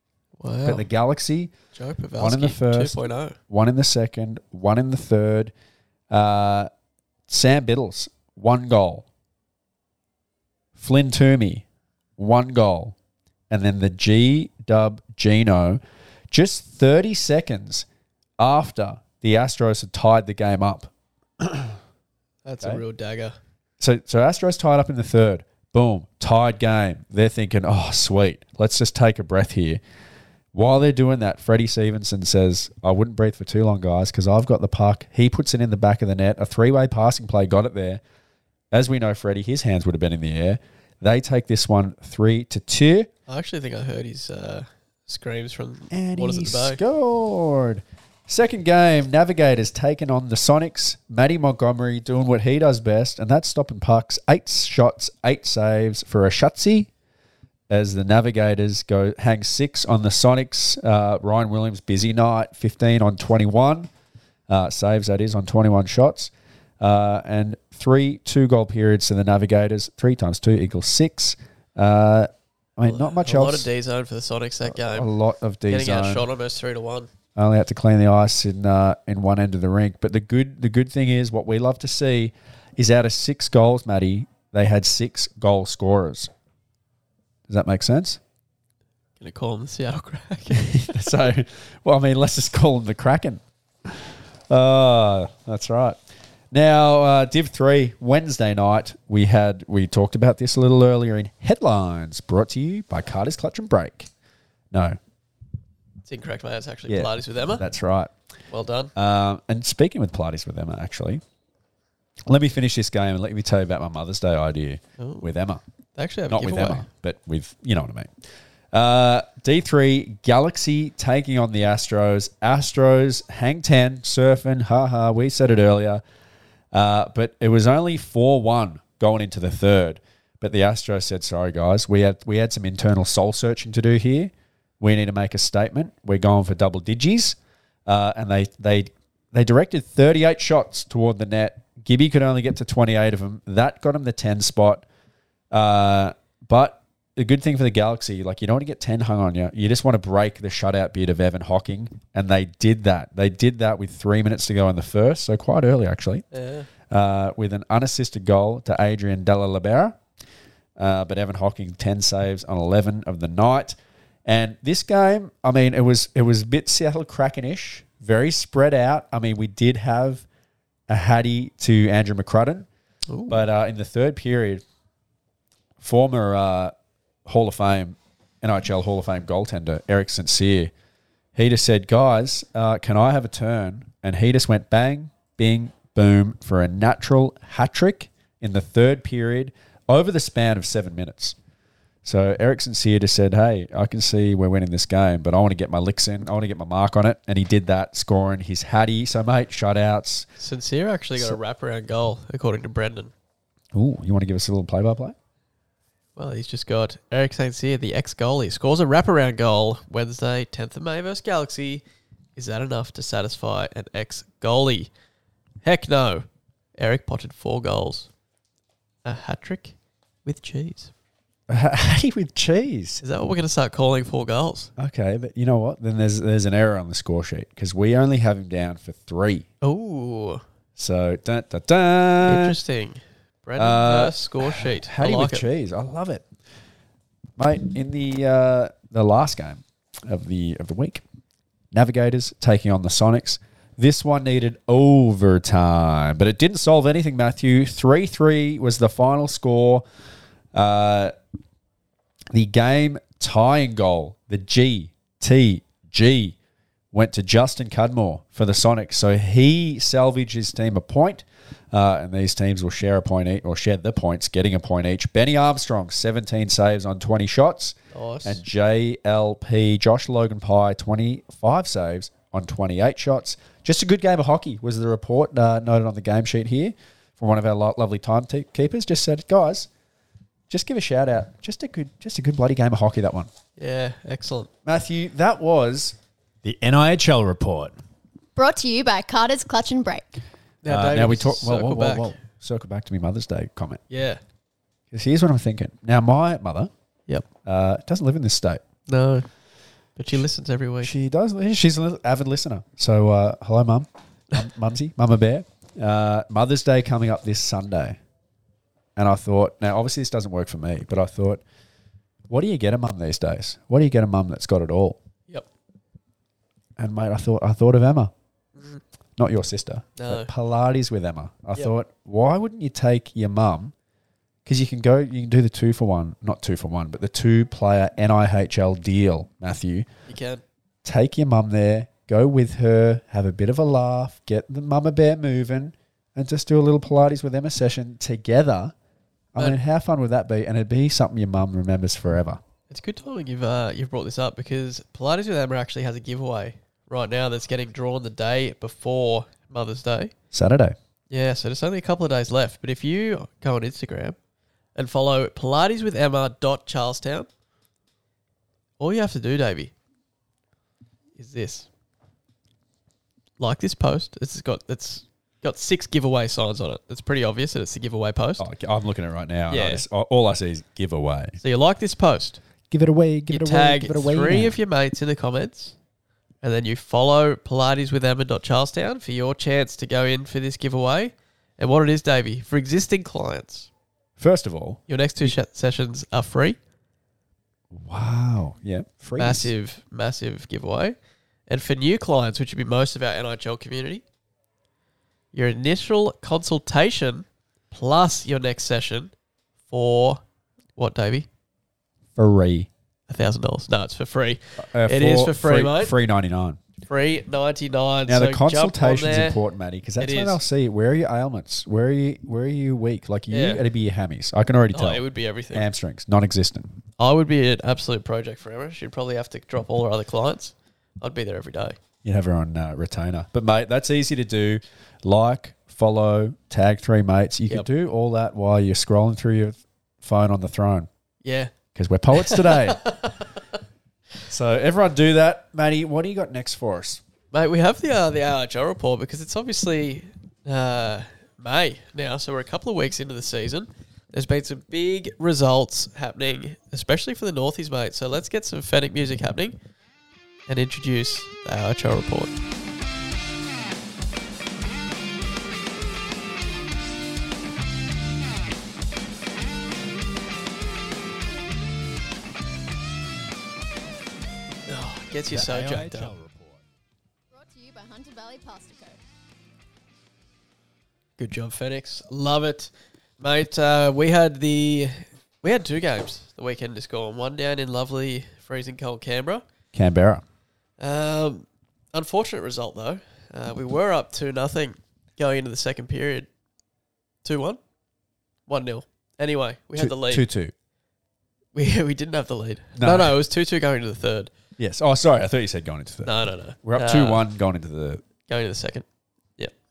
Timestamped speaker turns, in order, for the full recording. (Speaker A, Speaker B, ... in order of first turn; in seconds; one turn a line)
Speaker A: 0.4-0.9
Speaker B: 0.7-1.5
Speaker A: 1.7-3.4
Speaker B: 2.2-3.0
Speaker B: 3.5-5.5
Speaker B: 6.1-6.7
Speaker B: 7.3-9.1
Speaker B: 10.8-11.6
Speaker B: 12.2-12.9
Speaker B: 13.5-15.8
Speaker B: 16.3-17.9
Speaker B: 18.4-21.8
Speaker A: 22.4-23.4
Speaker B: 23.8-29.8
Speaker B: 30.5-38.0
Speaker B: 38.7-43.1
Speaker A: 43.3-46.8
Speaker B: 45.9-56.9
Speaker B: 57.7-63.9
Speaker B: 64.5-73.7
Speaker A: 72.8-75.1
Speaker B: 74.7-76.2
Speaker A: 75.7-77.1
Speaker B: 77.3-86.3
Speaker B: 87.5-88.2
Speaker A: 89.2-90.9
Speaker B: 90.5-96.0
Speaker B: 96.5-104.1
Speaker B: 104.7-105.0
Speaker A: 106.0-107.6
Speaker B: 106.9-108.1
Speaker A: 108.5-108.9
Speaker B: 108.9-111.2
Speaker B: 112.3-115.6
Speaker A: 115.0-115.3
Speaker A: 116.0-116.8
Speaker B: 116.3-118.1
Speaker B: 118.7-126.0
Speaker B: 126.7-144.8
Speaker B: 145.5-156.2
Speaker A: 156.3-156.7
Speaker B: 156.9-160.0
Speaker B: 160.8-170.2
Speaker B: 170.9-172.7
Speaker A: 173.1-173.4
Speaker B: 173.3-174.6
Speaker B: 175.8-176.7
Speaker B: 177.2-180.7
Speaker B: 181.3-191.3
Speaker B: 192.0-200.3
Speaker A: 200.4-203.1
Speaker B: 203.7-205.2
Speaker A: 206.2-211.8
Speaker A: 212.3-214.9
Speaker A: 215.6-218.1
Speaker A: 219.0-220.9
Speaker B: 221.5-223.0
Speaker A: 223.0-224.7
Speaker B: 224.8-229.4
Speaker A: 229.6-230.4
Speaker B: 230.8-232.6
Speaker A: 232.2-235.4
Speaker B: 233.6-236.2
Speaker B: 237.4-241.0
Speaker B: 241.7-249.8
Speaker B: 250.5-251.1
Speaker B: 252.3-256.4
Speaker B: 256.9-279.7
Speaker A: 267.9-268.4
Speaker B: 280.5-283.3
Speaker A: 283.6-284.5
Speaker B: 284.6-287.7
Speaker C: 288.4-290.2
Speaker A: 290.6-292.1
Speaker B: 290.7-293.8
Speaker A: 293.9-294.2
Speaker B: 294.9-296.7
Speaker B: 297.4-298.6
Speaker A: 298.9-299.3
Speaker A: 300.0-300.9
Speaker B: 300.8-308.0
Speaker B: 308.9-311.4
Speaker B: 312.3-315.0
Speaker B: 316.8-318.1
Speaker A: 318.6-318.8
Speaker B: 319.2-323.7
Speaker A: 320.0-320.3
Speaker B: 324.4-329.9
Speaker A: 330.1-330.4
Speaker B: 330.8-338.7
Speaker B: 339.3-342.4
Speaker A: 342.7-350.1
Speaker B: 350.3-350.7
Speaker A: 351.1-354.1
Speaker A: 354.8-357.3
Speaker A: 358.8-359.7
Speaker A: 361.1-361.7
Speaker A: 363.4-368.4
Speaker B: 368.4-371.4
Speaker A: 369.5-369.8
Speaker A: 371.4-372.4
Speaker B: 372.7-374.6
Speaker A: 373.3-375.7
Speaker A: 376.4-383.7
Speaker B: 384.2-385.3
Speaker A: 384.9-386.6
Speaker B: 387.7-389.5
Speaker A: 389.2-390.9
Speaker A: 391.5-394.0
Speaker A: 395.3-399.1
Speaker A: 399.7-400.2
Speaker A: 400.7-401.3
Speaker B: 402.1-402.7
Speaker A: 403.1-405.9
Speaker B: 404.6-406.6
Speaker A: 406.8-409.4
Speaker B: 408.1-416.7
Speaker A: 410.0-410.4
Speaker A: 413.3-413.6
Speaker A: 414.7-415.7
Speaker A: 417.0-421.8
Speaker B: 422.0-430.9
Speaker A: 431.2-431.5
Speaker B: 431.7-432.8
Speaker A: 432.1-433.4
Speaker B: 434.3-437.0
Speaker A: 437.3-449.6
Speaker A: 450.5-452.3
Speaker A: 464.7-466.1
Speaker B: 465.3-466.6
Speaker C: 467.3-469.0
Speaker A: 471.2-479.4
Speaker B: 479.7-480.2
Speaker A: 480.8-486.3
Speaker A: 487.2-487.6
Speaker A: 488.5-490.2
Speaker B: 489.8-490.5
Speaker A: 491.5-494.3
Speaker B: 492.8-493.1
Speaker B: 494.6-496.1
Speaker A: 496.0-497.2
Speaker B: 496.6-498.0
Speaker A: 498.2-498.8